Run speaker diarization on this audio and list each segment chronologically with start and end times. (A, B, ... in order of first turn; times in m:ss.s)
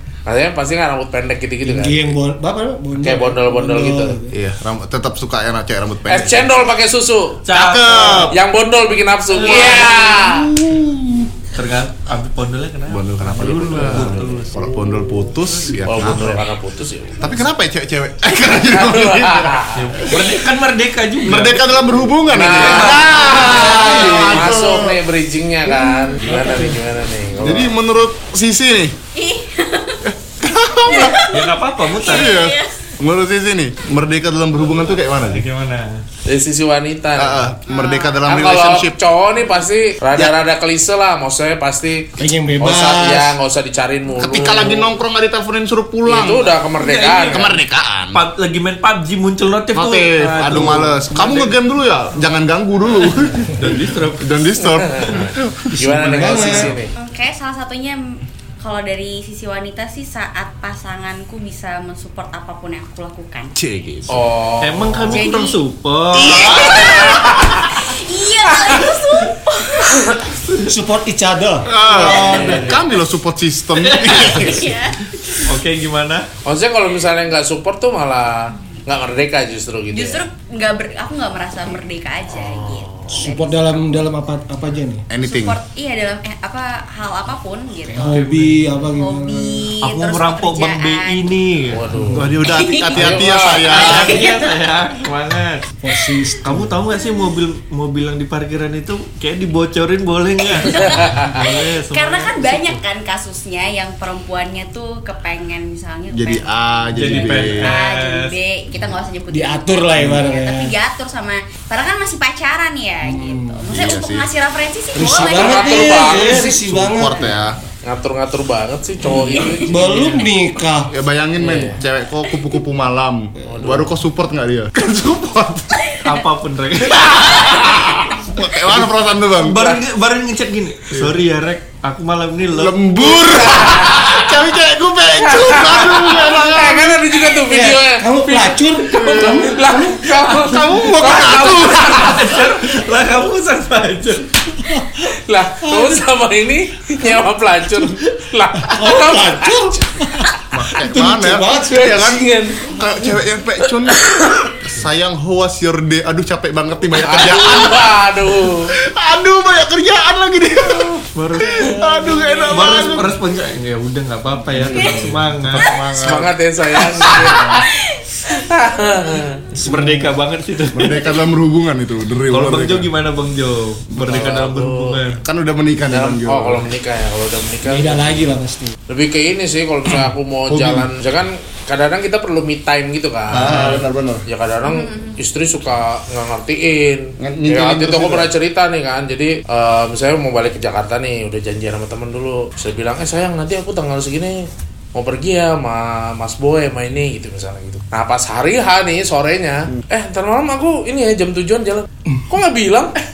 0:00.3-0:02.1 A
0:01.6-0:04.4 B
0:03.0-0:04.2 A
0:04.3-0:06.6 C
0:06.1-0:10.5 A
0:07.4-0:08.3 D
0:07.5-0:08.4 C
0:09.4-0:11.3 C
0:11.6-0:14.6 D
0:12.9-0:16.4 C
0:13.6-0:15.2 A
0:15.8-0:17.3 A
0:17.2-0:19.6 C
0:18.6-0:20.0 A
0:19.7-0:22.0 D
0:21.2-0:25.0 C
0:22.3-0:27.7 A
0:22.6-0:23.0 D
0:23.2-0:24.2 E
0:26.2-0:26.8 B
0:27.4-0:29.0 C
0:29.2-0:30.1 E
0:30.0-0:31.3 C
0:30.8-0:32.8 E
0:31.3-0:32.4 D
0:32.0-0:35.4 C
0:34.6-0:36.0 D
0:36.2-0:37.6 A
0:37.2-0:39.0 C
0:37.7-0:38.2 E
0:38.3-0:44.9 A
0:42.2-0:43.4 B
0:44.2-0:46.6 C
0:46.0-0:47.5 A
0:46.8-0:47.6 D
0:47.3-0:48.2 C
0:48.1-0:51.5 D
0:49.7-0:55.8 C
0:53.6-0:54.3 D
0:54.6-0:56.9 A
0:55.7-0:56.8 B
0:56.4-0:56.7 C
0:57.0-1:03.6 E
1:03.6-1:04.2 C
1:04.1-1:05.3 A
1:04.6-1:06.7 D
1:05.1-1:05.6 E
1:06.1-1:10.2 E
1:06.3-1:07.3 C
1:06.6-1:07.7 A
1:08.5-1:08.8 A
1:09.9-1:10.3 A
1:10.6-1:12.7 B
1:11.6-1:14.7 C
1:12.0-1:12.7 D
1:12.0-1:12.8 A
1:12.0-1:12.6 E
1:13.8-1:14.5 D
1:14.1-1:15.4 E
1:15.4-1:16.3 D
1:16.4-1:20.2 A
1:19.9-1:24.0 E
1:22.3-1:23.2 A
1:23.1-1:25.0 B
1:25.1-1:25.6 C
1:25.2-1:28.2 E
1:27.8-1:29.7 B
1:28.1-1:28.7 D
1:28.8-1:31.3 E
1:29.8-1:31.9 D
1:31.7-1:32.4 A
1:31.9-1:32.3 B
1:32.1-1:34.2 C
1:32.4-1:34.6 E
1:32.9-1:34.0 A
1:33.6-1:35.7 D
1:35.8-1:36.8 B
1:36.4-1:42.8 D
1:40.4-1:56.2 E
1:40.9-1:41.4 A
1:46.1-1:47.8 C
1:46.9-1:48.4 D
1:49.3-1:50.7 B
1:53.0-1:53.6 B
1:53.7-1:54.3 C
1:55.0-1:57.3 B
1:55.1-1:56.5 A
1:56.2-1:57.6 C
1:57.8-2:00.2 A
1:59.2-2:00.9 B
1:59.2-1:59.6 E
1:59.8-2:00.2 D
2:00.9-2:06.0 C
2:01.4-2:01.8 A
2:03.5-2:03.9 A
2:06.0-2:07.7 D
2:07.2-2:08.1 A
2:08.2-2:09.6 C
2:09.3-2:12.8 D
2:09.6-2:09.8 A
2:12.5-2:17.2 C
2:13.0-2:14.4 A
2:15.2-2:22.3 A
2:17.5-2:19.8 B
2:18.9-2:22.4 C
2:21.7-2:24.5 D
2:24.7-2:25.0 B
2:25.1-2:30.4 A
2:25.6-2:26.0 B
2:28.6-2:32.2 B
2:30.5-2:38.0 C
2:31.5-2:32.8 A
2:33.6-2:34.5 A
2:37.0-2:38.7 A
2:38.5-2:43.2 C
2:41.1-2:41.8 D
2:42.4-2:45.8 D
2:44.5-2:46.3 C
2:45.9-2:47.7 A
2:46.9-2:47.6 C
2:47.0-2:48.0 E
2:48.3-2:49.4 A
2:49.5-2:50.2 B
2:49.6-2:51.0 D
2:50.7-2:52.9 C
2:52.3-2:55.2 D
2:54.0-2:54.2 C
2:54.0-2:55.0 A
2:55.2-2:56.7 C
2:55.9-2:58.2 A
2:57.6-2:58.8 B
2:58.9-3:23.0 A
3:00.5-3:00.9 C
3:03.3-3:04.2 C
3:04.6-3:05.2 E
3:07.2-3:08.3 C